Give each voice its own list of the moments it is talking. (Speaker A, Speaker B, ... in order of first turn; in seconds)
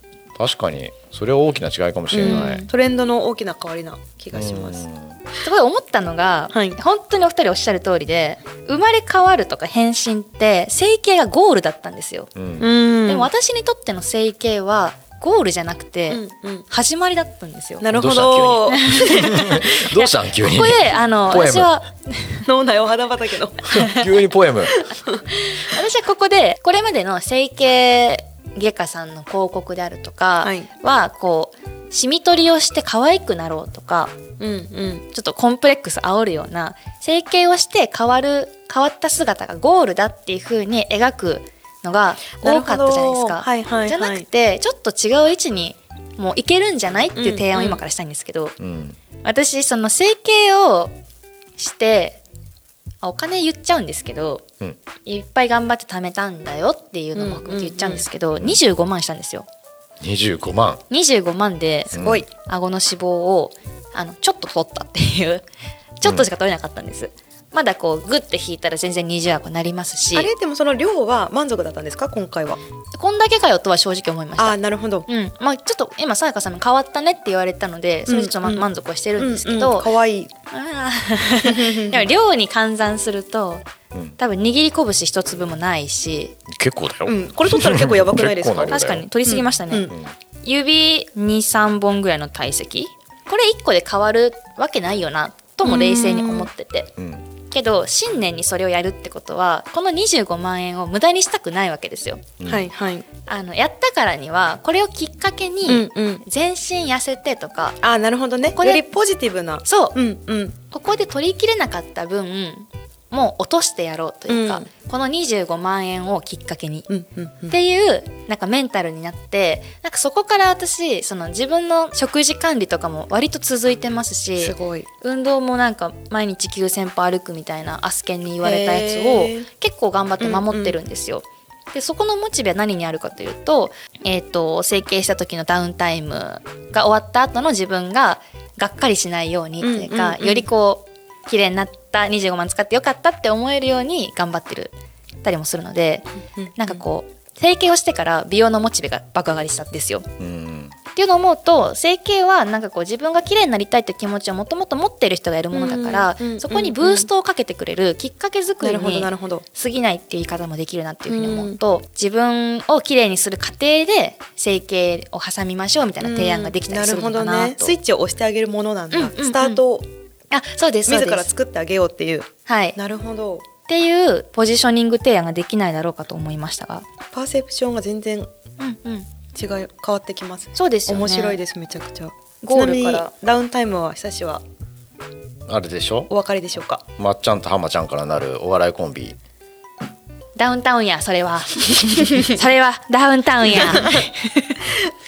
Speaker A: 0.3-2.6, 4.3-5.2, 12.3-12.7, 17.9-21.7, 23.7-24.8, 48.6-49.0, 60.0-60.8, 61.9-62.2, 86.5-89.0, 97.0-97.2, 102.4-102.7, 150.2-150.7, 185.5-186.1, 187.0-189.2
Speaker B: 2.1-4.8, 6.5-6.8, 12.6-13.3, 16.1-16.7, 17.8-19.5, 22.4-23.9, 24.7-25.2, 30.4-30.7, 34.4-35.1, 42.4-44.2, 47.1-47.8, 57.1-58.0, 61.9-62.3, 70.1-72.6, 74.4-75.1, 78.1-80.3, 81.4-82.1, 87.1-89.9, 95.6-96.5, 102.5-103.1, 105.6-106.2, 107.8-110.6, 114.3-114.7, 116.9-117.5, 124.3-124.9, 128.4-129.5, 130.2-130.8, 139.6-140.5, 146.4-146.8, 155.5-157.1, 158.6-159.4, 161.1-161.6, 166.0-169.8, 170.9-173.4, 177.1-178.3, 179.3-184.4, 186.1-186.8, 193.6-194.1
Speaker C: 2.2-2.7, 5.4-12.3, 13.1-17.8, 18.7-22.4, 23.7-24.0, 25.3-34.1, 35.1-48.6, 49.2-50.9, 51.6-52.2, 53.0-54.4, 55.0-59.5, 60.9-65.4, 66.0-70.3, 72.9-74.6, 75.1-79.9, 80.5-83.6, 84.2-86.3, 88.7-89.9, 90.4-96.9, 97.5-102.2, 103.3-107.8, 108.6-108.8, 109.6-110.0, 110.7-116.9, 117.5-150.1, 150.9-167.7, 168.9-169.6, 170.3-171.3, 172.5-172.8, 173.7-176.8, 178.6-179.1, 180.6-181.4, 182.4-183.1, 190.3-194.7